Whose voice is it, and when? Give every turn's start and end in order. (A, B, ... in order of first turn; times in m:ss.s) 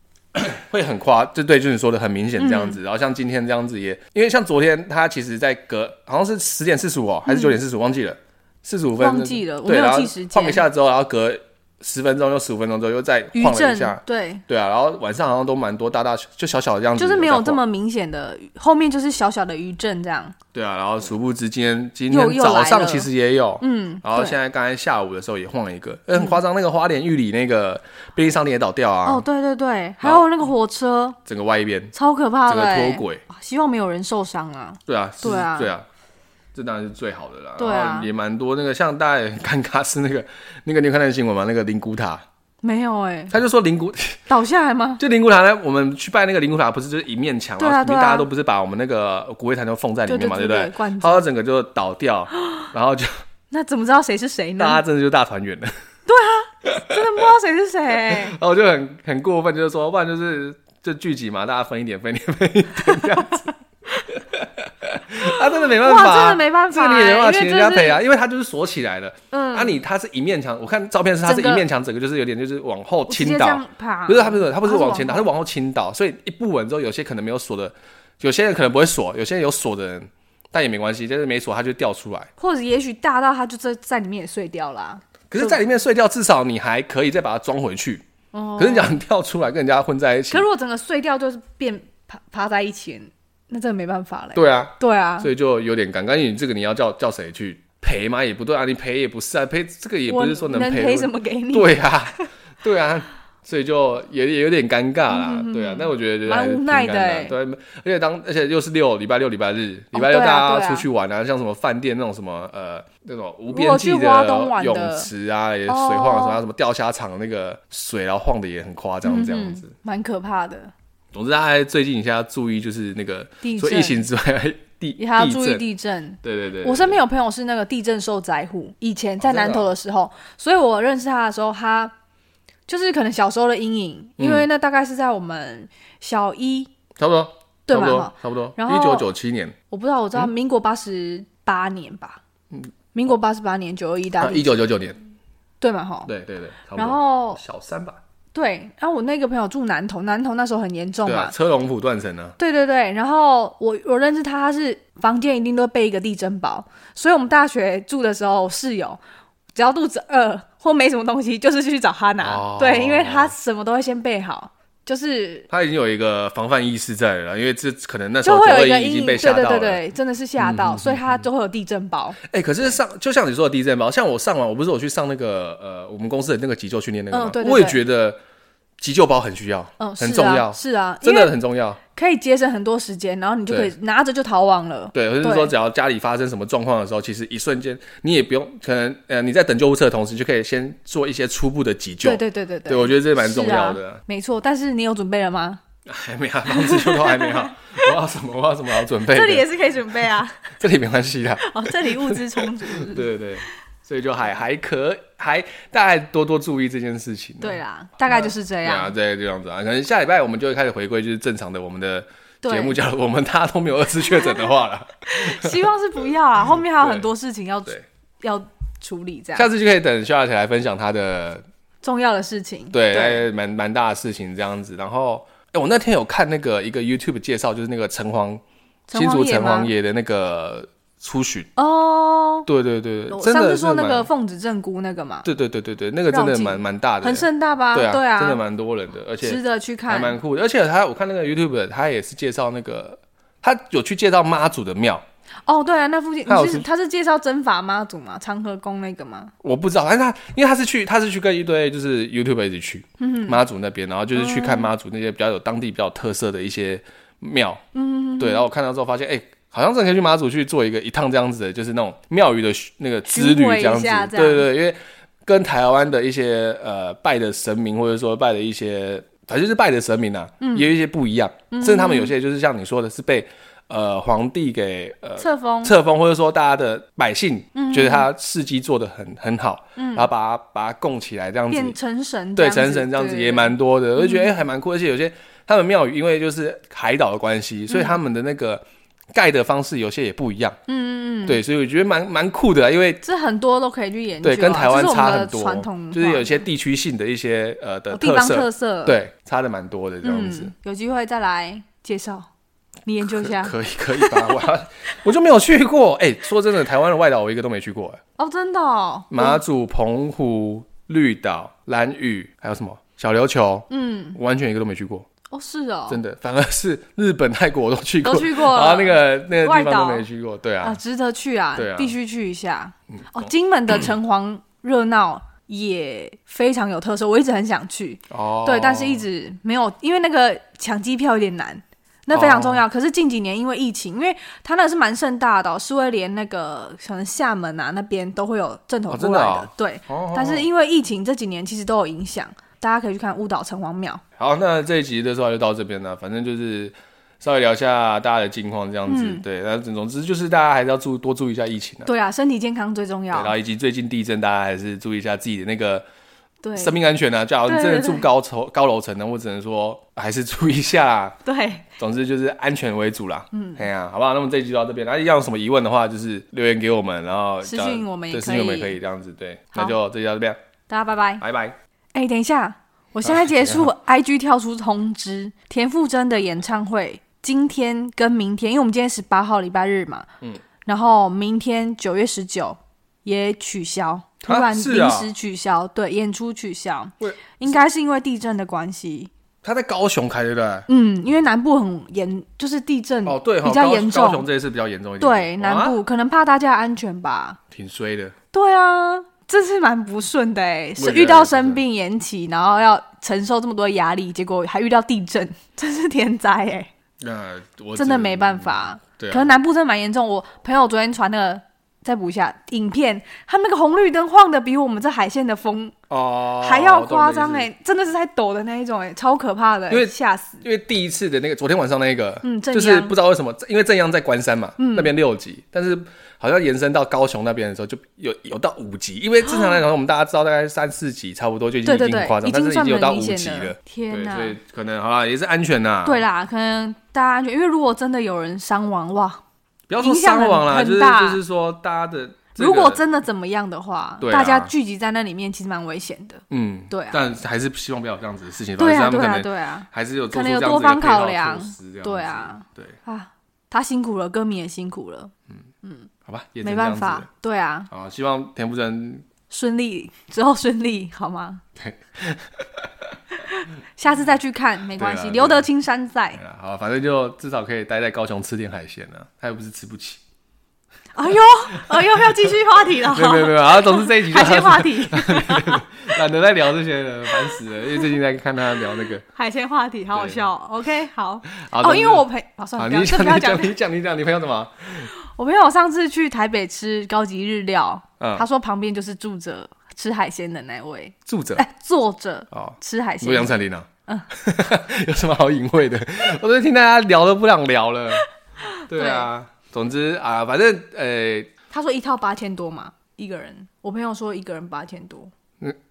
0:00.3-0:17.6 A
0:02.4-0:02.8 B
0:07.3-0:07.6 B
0:09.0-0:10.6 B
0:13.3-0:14.4 B
0:17.0-0:20.4 B
0:20.5-0:29.2 A
0:22.1-0:23.1 B
0:23.6-0:24.4 B
0:29.0-0:31.2 B
0:30.0-0:30.3 A
0:31.2-0:31.9 A
0:31.9-0:35.7 B
0:32.5-0:33.2 A
0:34.9-0:35.8 A
0:36.5-0:42.2 A
0:37.6-0:38.1 B
0:42.6-0:43.3 B
0:43.3-0:44.2 A
0:44.3-0:45.0 B
0:45.0-0:53.1 A
0:47.6-0:48.3 B
0:50.0-0:51.3 B
0:53.5-0:54.8 B
0:54.6-0:55.7 A
0:56.0-0:58.4 B
0:56.6-0:57.0 A
0:58.0-1:03.5 A
1:02.8-1:03.4 B
1:04.1-1:22.3 A
1:05.2-1:08.0 B
1:09.3-1:09.8 B
1:11.2-1:11.6 B
1:13.1-1:15.3 B
1:22.4-1:25.6 B
1:25.3-1:28.0 A
1:28.3-1:29.0 B
1:28.6-1:30.4 A
1:30.3-1:35.3 B
1:34.3-1:59.7 A
1:40.1-1:42.2 B
1:45.1-1:47.3 B
1:49.9-1:50.9 B
1:53.5-1:55.1 B
1:55.7-1:56.4 B
1:59.0-2:00.7 B
2:01.1-2:05.6 A
2:03.4-2:04.0 B
2:05.0-2:11.9 B
2:06.2-2:07.0 A
2:09.2-2:09.7 A
2:12.7-2:16.7 B
2:14.2-2:14.5 A
2:17.0-2:19.5 A
2:17.7-2:19.1 B
2:19.7-2:22.2 B
2:22.9-2:24.6 B
2:24.2-2:25.0 A
2:25.6-2:26.1 B
2:26.0-2:28.0 A
2:26.8-2:27.4 B
2:28.3-2:31.3 B
2:31.0-2:32.4 A
2:32.4-2:39.0 B
2:39.5-2:45.5 B
2:42.2-2:43.3 A
2:45.5-2:49.8 A
2:48.2-2:52.2 B
2:50.4-2:51.2 A
2:52.2-2:58.2 A
2:57.1-2:57.8 B
2:58.8-3:01.8 A
2:59.8-3:01.3 B
3:01.9-3:05.5 B
3:03.5-3:03.7 A
3:04.9-3:14.0 A
3:12.0-3:15.6 B
3:15.8-3:19.5 A
3:16.5-3:17.9 B
3:19.0-3:20.5 B
3:20.5-3:35.6 A
3:21.4-3:23.1 B
3:27.4-3:28.9 B
3:32.4-3:32.8 B
3:35.0-3:39.5 B
3:36.5-3:37.0 A
3:39.4-3:41.4 A
3:41.8-3:43.2 B
3:42.7-3:48.4 A
3:48.9-3:49.7 B
3:48.9-3:51.5 A
3:51.6-3:52.5 B
3:52.4-3:54.1 A
3:53.1-3:55.3 B
3:55.2-4:05.0 A
3:56.1-3:58.4 B
3:59.2-4:00.2 B
4:05.5-4:09.3 B
4:06.2-4:06.7 A
4:09.4-4:17.6 A
4:13.0-4:13.4 B
4:14.1-4:14.7 B
4:17.7-4:18.4 B
4:18.2-4:41.8 A
4:23.1-4:24.5 B
4:30.4-4:30.7 B
4:31.5-4:32.1 B
4:35.2-4:35.7 B
4:37.5-4:38.1 B
4:39.8-4:40.1 B
4:41.5-4:44.3 B
4:42.4-4:50.6 A
4:47.7-4:48.0 B
4:50.7-4:51.4 B
4:51.2-4:53.0 A
4:53.0-4:56.4 B
4:54.2-5:00.5 A
4:57.9-4:59.0 B
5:00.0-5:02.3 B
5:02.8-5:04.4 B
5:03.1-5:08.0 A
5:08.2-5:09.4 B
5:09.1-5:15.1 A
5:13.7-5:14.2 B
5:15.3-5:16.0 B
5:15.9-5:20.8 A
5:18.0-5:20.0 B
5:20.6-5:44.0 B
5:21.5-5:22.0 A
5:23.0-5:23.3 A
5:28.1-5:29.0 A
5:32.1-5:32.6 A
5:38.9-5:40.5 A
5:44.2-5:51.9 A
5:48.9-5:49.2 B
5:51.8-5:53.3 B
5:53.1-5:55.8 A
5:56.4-5:56.8 B
5:56.6-6:01.2 A
5:57.4-5:58.1 B
6:01.2-6:01.6 B
6:01.8-6:10.4 A
6:03.3-6:03.6 B
6:07.4-6:08.8 B
6:10.7-6:11.2 B
6:11.2-6:11.6 A
6:11.9-6:20.1 B
6:13.0-6:13.7 A
6:20.6-6:29.1 B
6:24.2-6:25.1 A
6:29.4-6:30.7 A
6:30.7-6:34.2 B
6:33.0-6:35.8 A
6:35.0-6:37.4 B
6:37.5-6:38.1 A
6:38.3-6:46.7 B
6:40.8-6:41.6 A
6:47.0-6:49.3 A
6:47.8-6:55.7 B
6:55.9-6:57.5 A
6:56.4-7:00.4 B
6:59.7-7:16.0 A
7:02.2-7:02.9 B
7:04.6-7:04.9 B
7:09.2-7:09.6 B
7:11.6-7:14.4 B
7:15.8-7:19.2 B
7:19.7-7:22.8 A
7:19.8-7:21.2 B
7:22.4-7:27.0 B
7:24.0-7:24.5 A
7:26.3-7:32.8 A
7:28.6-7:35.1 B
7:35.6-7:35.9 B
7:36.0-7:37.1 A
7:36.4-7:37.7 B
7:37.7-7:39.0 A
7:39.3-7:41.4 B
7:41.6-7:42.7 A
7:43.1-7:46.2 B
7:44.8-7:45.5 A
7:46.2-7:50.0 A
7:50.9-7:55.6 B
7:51.5-7:59.0 A
7:59.1-8:03.5 B
7:59.9-8:00.2 A
8:01.3-8:02.1 A
8:02.6-8:04.9 A
8:05.0-8:13.3 B
8:08.0-8:08.2 A
8:11.1-8:11.4 A
8:12.3-8:18.0 A
8:18.5-8:19.1 B
8:18.7-8:21.3 A
8:21.5-8:25.1 B